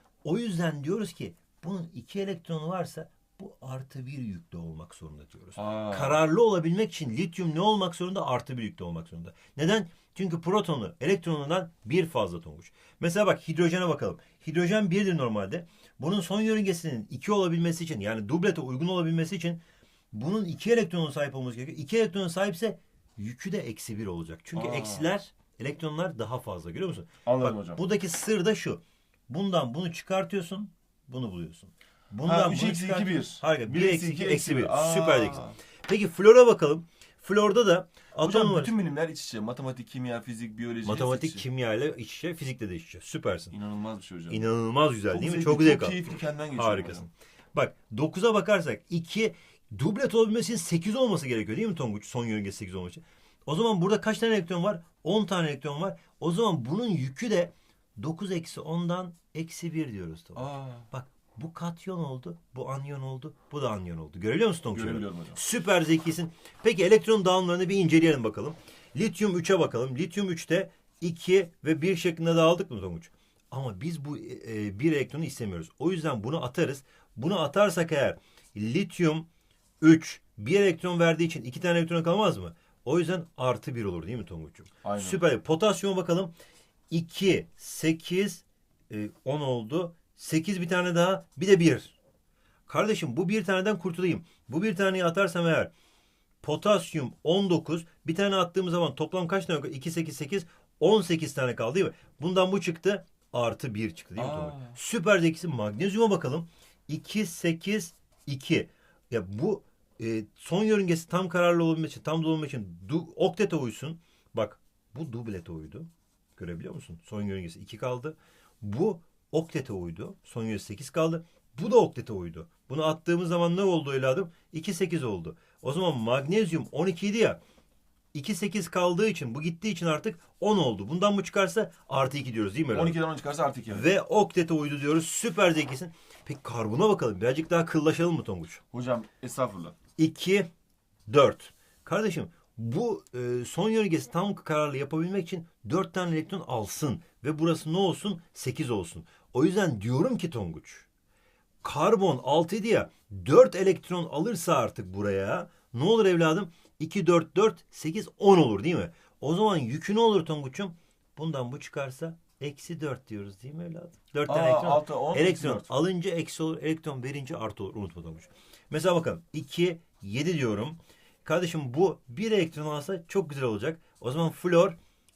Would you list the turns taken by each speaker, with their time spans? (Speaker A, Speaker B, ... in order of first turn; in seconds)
Speaker A: 0.2-38.7, 40.8-43.6, 44.3-79.3, 79.8-86.3, 86.9-92.0, 92.7-95.7, 96.4-127.4, 128.1-133.0, 133.7-138.6, 140.0-140.5, 141.1-150.9, 151.6-174.8
Speaker B: 5.6-6.2, 24.6-25.1, 27.2-27.8, 32.2-35.6, 38.2-41.5, 43.5-44.5, 45.1-47.1, 60.4-60.9, 64.7-65.4, 84.8-85.2, 104.2-104.8, 132.7-133.9, 138.7-139.8, 164.3-165.7